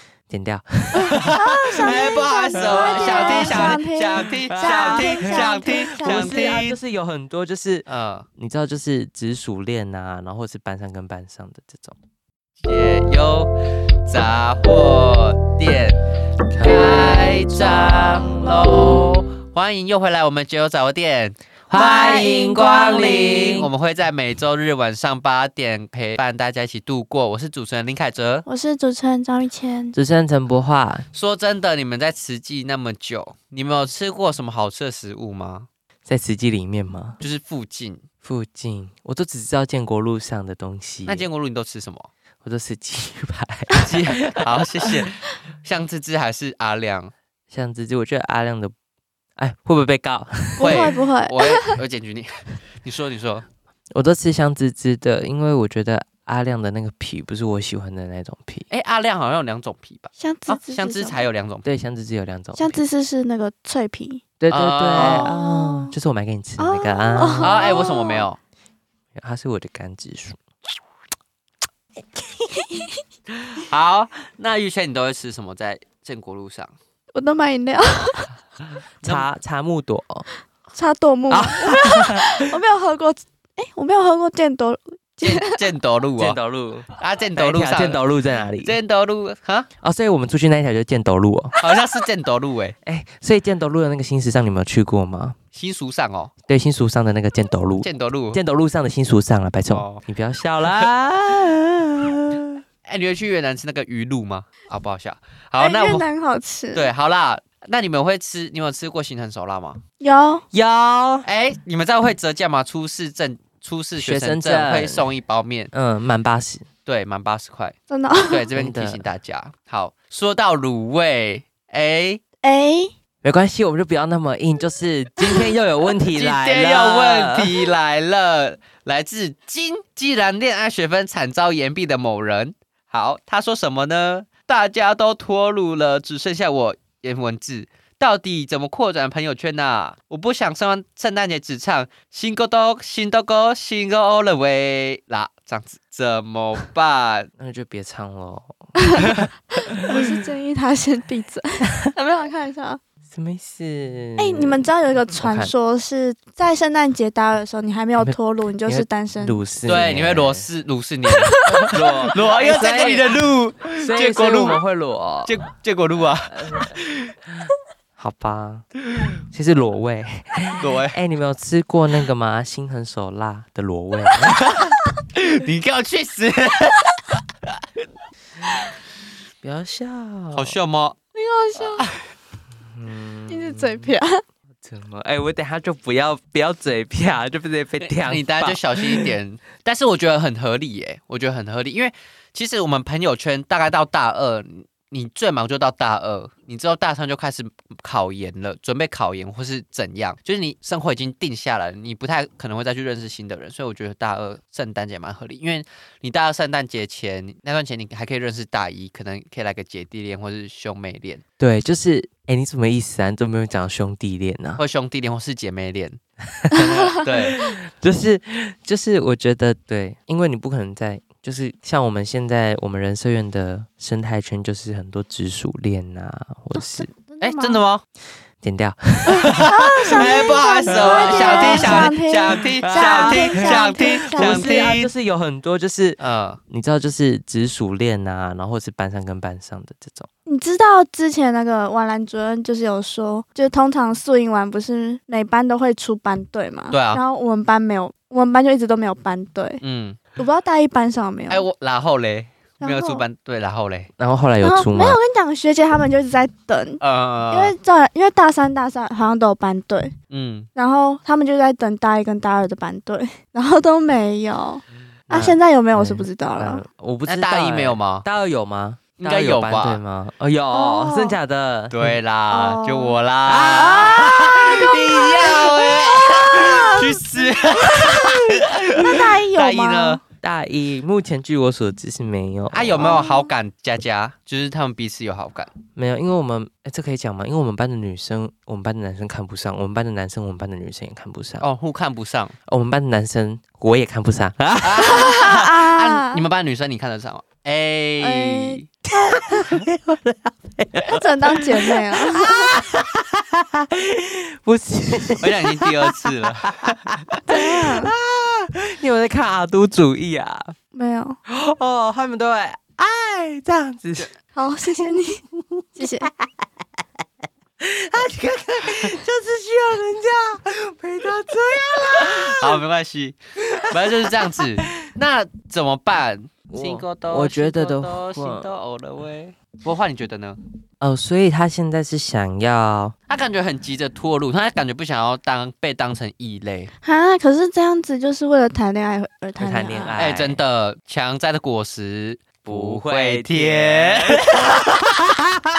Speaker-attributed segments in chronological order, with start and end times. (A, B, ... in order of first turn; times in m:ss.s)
0:00.3-0:01.2 A
0:01.0-0:06.6 B
0:01.1-0:06.8 C
0:02.5-0:12.0 A
0:07.8-0:08.3 C
0:12.6-0:13.5 C
0:14.1-0:16.0 C
0:16.5-0:18.8 A
0:16.6-0:28.4 C
0:21.7-0:23.7 A
0:28.4-0:29.9 B
0:29.9-0:31.0 A
0:31.1-0:35.7 C
0:36.1-0:37.2 A
0:37.2-0:38.0 C
0:38.2-0:41.2 A
0:41.0-0:42.1 C
0:42.4-0:45.0 A
0:43.8-0:47.1 C
0:47.5-0:48.7 A
0:49.4-0:50.9 A
0:50.6-0:51.8 B
0:50.6-0:53.4 C
0:53.9-0:58.7 A
0:58.7-1:01.6 C
1:00.2-1:01.2 B
1:01.6-1:02.8 A
1:02.6-1:04.2 B
1:04.4-1:07.5 A
1:04.5-1:05.3 C
1:04.9-1:05.9 B
1:06.6-1:08.3 B
1:07.4-1:08.4 C
1:09.1-1:10.4 A
1:12.2-1:13.0 B
1:13.6-1:16.7 C
1:17.1-1:18.3 B
1:19.0-1:19.3 C
1:19.0-1:20.3 A
1:20.7-1:25.7 B
1:21.3-1:22.5 A
1:25.2-1:26.4 C
1:26.2-1:28.8 A
1:27.0-1:28.0 C
1:28.6-1:29.7 C
1:29.8-1:31.6 A
1:31.6-1:32.7 C
1:32.8-1:35.4 A
1:35.5-1:36.3 C
1:36.5-1:42.6 A
1:37.8-1:38.4 C
1:39.7-1:40.0 C
1:42.8-1:46.0 C
1:45.6-1:46.9 B
1:46.7-1:49.8 C
1:50.0-1:50.4 B
1:50.5-1:51.3 A
1:51.2-1:55.7 C
1:54.0-1:55.0 A
1:55.7-1:56.6 A
1:56.8-1:57.7 C
1:57.9-1:58.5 B
1:58.2-2:02.2 C
1:58.5-1:59.0 A
2:02.4-2:02.9 B
2:03.2-2:07.5 A
2:06.1-2:27.3 C
2:27.4-2:29.2 A
2:29.7-2:32.8 B
2:33.1-2:35.5 A
2:34.2-2:39.4 B
2:38.0-2:40.5 A
2:39.6-2:44.6 C
2:41.1-2:41.7 B
2:41.5-2:43.2 A
2:43.8-2:45.3 A
2:45.2-2:47.1 C
2:46.3-2:46.7 A
2:48.0-2:48.6 A
2:49.3-2:54.4 A
2:50.6-2:51.0 C
2:54.3-2:57.5 C
2:59.4-3:00.6 A
3:00.3-3:01.0 C
3:01.1-3:01.8 B
3:01.8-3:02.0 C
3:02.7-3:03.9 A
3:03.3-3:04.2 B
3:04.6-3:09.1 A
3:07.8-3:31.2 C
3:31.4-3:34.6 A
3:34.6-3:36.0 C
3:36.4-3:46.9 A
3:36.9-3:37.6 C
3:46.5-3:47.6 B
3:47.2-3:47.8 C
3:48.4-4:00.1 A
3:49.2-3:54.8 B
3:49.9-3:54.9 C
3:56.0-3:56.4 C
4:00.2-4:09.6 B
4:06.7-4:07.0 C
4:09.6-4:10.1 C
4:10.2-4:11.4 B
4:11.3-4:13.9 C
4:12.6-4:13.0 B
4:14.0-4:15.0 A
4:14.4-4:19.9 B
4:16.8-4:17.6 C
4:20.1-4:20.5 C
4:20.5-4:26.6 B
4:25.1-4:32.0 A
4:27.0-4:28.0 C
4:29.0-4:29.8 C
4:30.5-4:31.2 B
4:31.7-4:40.0 C
4:32.3-4:33.0 B
4:33.3-4:35.4 A
4:33.6-4:40.0 B
4:40.2-4:43.0 A
4:42.5-4:45.5 C
4:42.8-4:43.3 B
4:45.7-4:51.4 A
4:51.4-4:52.3 C
4:52.5-4:55.1 A
4:54.6-4:58.7 C
4:54.9-4:56.2 B
4:58.0-4:59.2 B
4:58.9-5:01.7 A
5:00.9-5:02.6 B
5:02.4-5:06.7 A
5:05.2-5:06.8 C
5:07.3-5:07.9 B
5:07.3-5:10.5 A
5:10.7-5:11.2 B
5:11.3-5:14.1 A
5:14.3-5:15.2 B
5:15.4-5:16.2 A
5:15.8-5:16.1 B
5:17.6-5:22.6 A
5:22.0-5:23.2 C
5:23.5-5:24.4 A
5:23.7-5:30.4 C
5:26.5-5:28.5 A
5:30.8-5:33.0 A
5:33.1-5:36.7 C
5:36.8-5:40.0 B
5:39.4-5:40.4 A
5:40.0-5:44.2 C
5:42.4-5:45.0 A